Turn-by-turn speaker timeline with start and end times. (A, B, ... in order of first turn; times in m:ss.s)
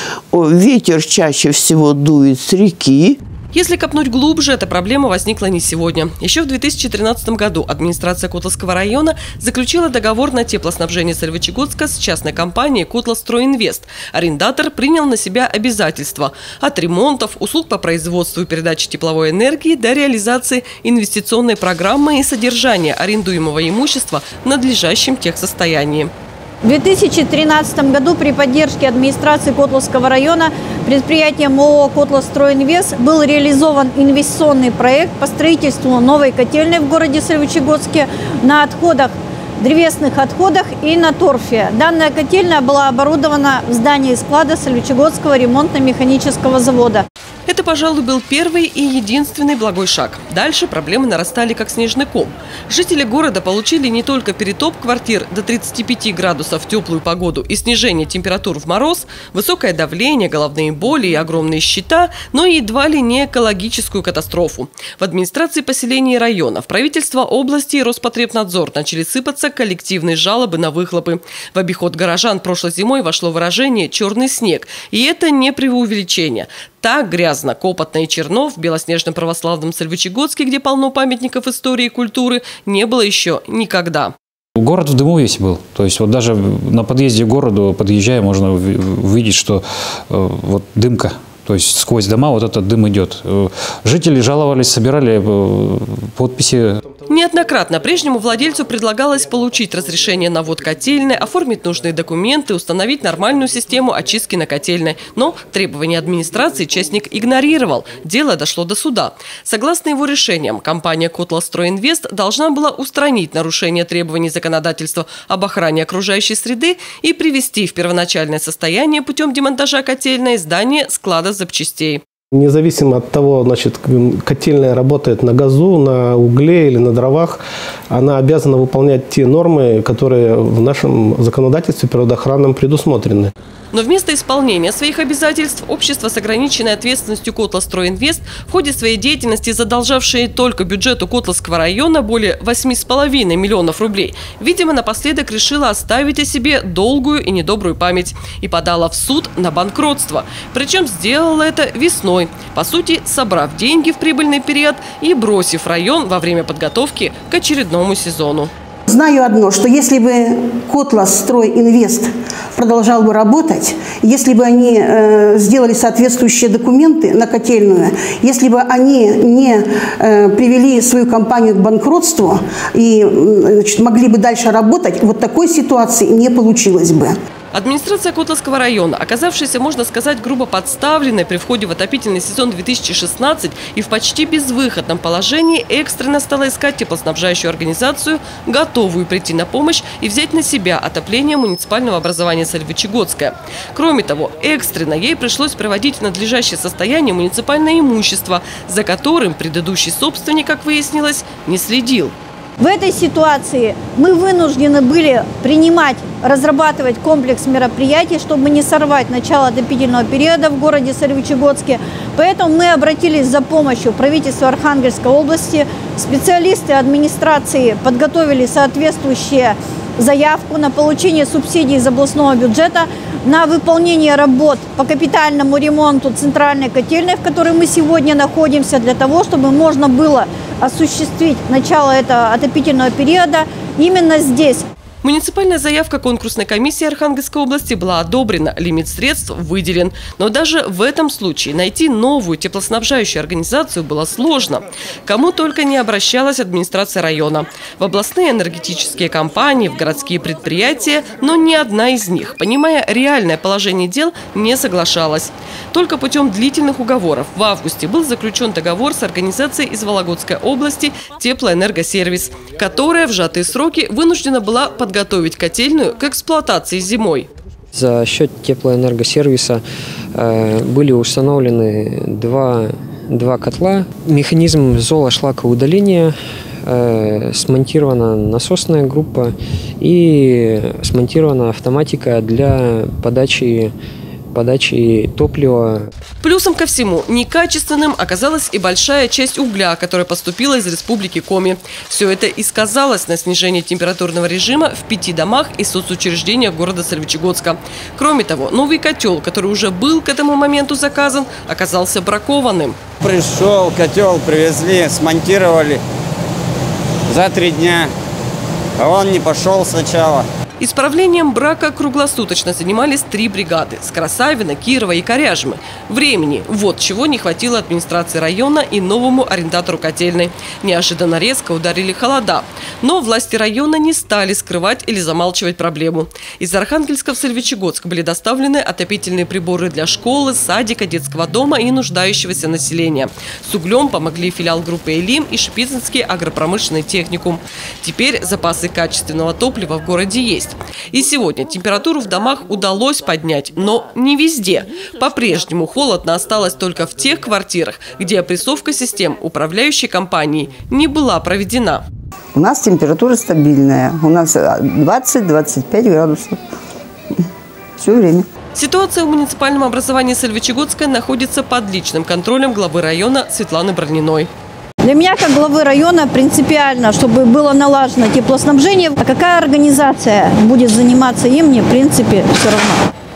0:00.3-0:03.2 A
0:03.5-0:26.1 B
0:26.6-0:47.0 C
0:47.5-1:24.1 B
1:24.6-1:36.8 D
1:37.1-2:02.0 B
2:02.3-2:07.4 E
2:07.9-2:13.3 E
2:13.7-2:38.5 B
2:38.9-2:57.2 F
2:57.5-3:22.2 B
3:22.6-3:54.7 C
3:55.0-4:27.3 B
4:27.7-4:29.6 G
4:30.2-4:36.1 G
4:36.7-4:43.7 G
4:44.3-4:45.9 G
4:46.2-5:02.8 B
5:03.0-5:05.8 H
5:07.1-5:07.9 H
5:08.8-5:10.3 H
5:10.6-5:51.8 B
5:52.3-5:56.4 I
5:57.8-5:58.3 I
5:58.6-6:04.3 B
6:04.8-6:12.9 C